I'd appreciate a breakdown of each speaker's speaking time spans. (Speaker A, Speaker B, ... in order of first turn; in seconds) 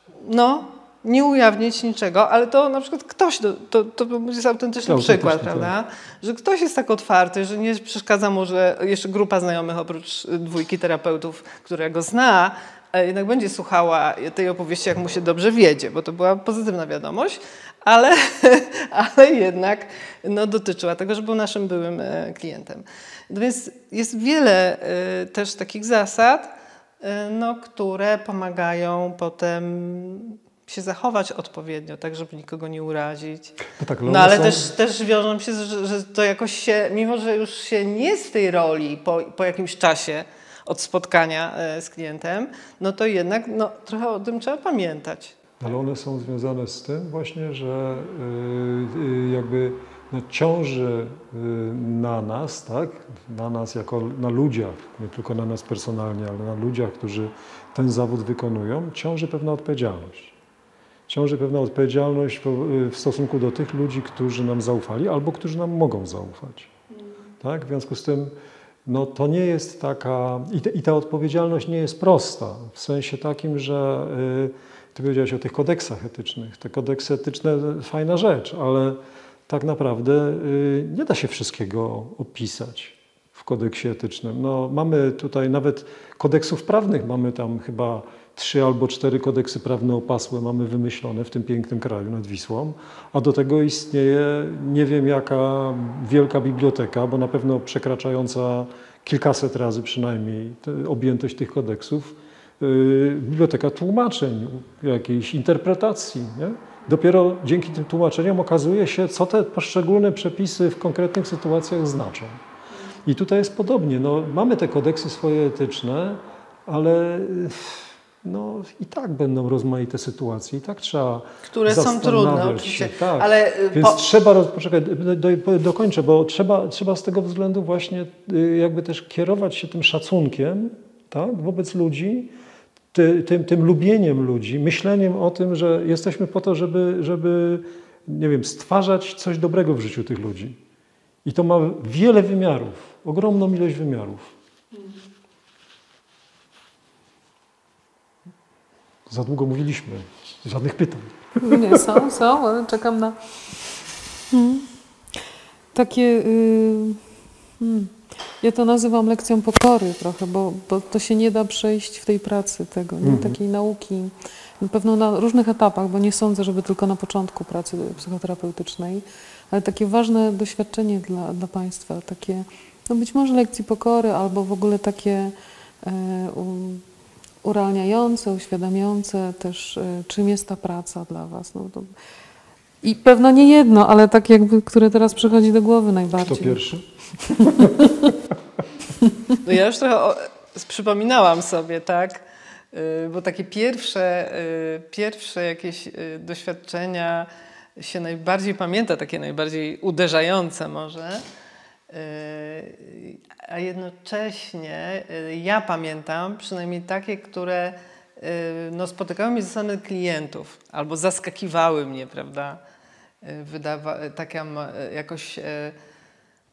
Speaker A: 0.2-45.4, 121.5-124.0, 189.4-201.2, 201.9-212.6, 213.2-215.8
Speaker B: 4.8-5.7, 33.7-34.7, 45.6-60.3, 61.1-66.7, 67.4-68.3, 68.8-112.4, 113.0-132.3, 132.9-140.6, 141.2-144.3, 149.1-151.9, 163.0-163.4, 186.2-186.8, 187.4-188.1
Speaker C: 151.4-153.6, 154.3-154.7, 155.7-157.0, 157.6-176.8, 177.4-181.9, 182.8-187.9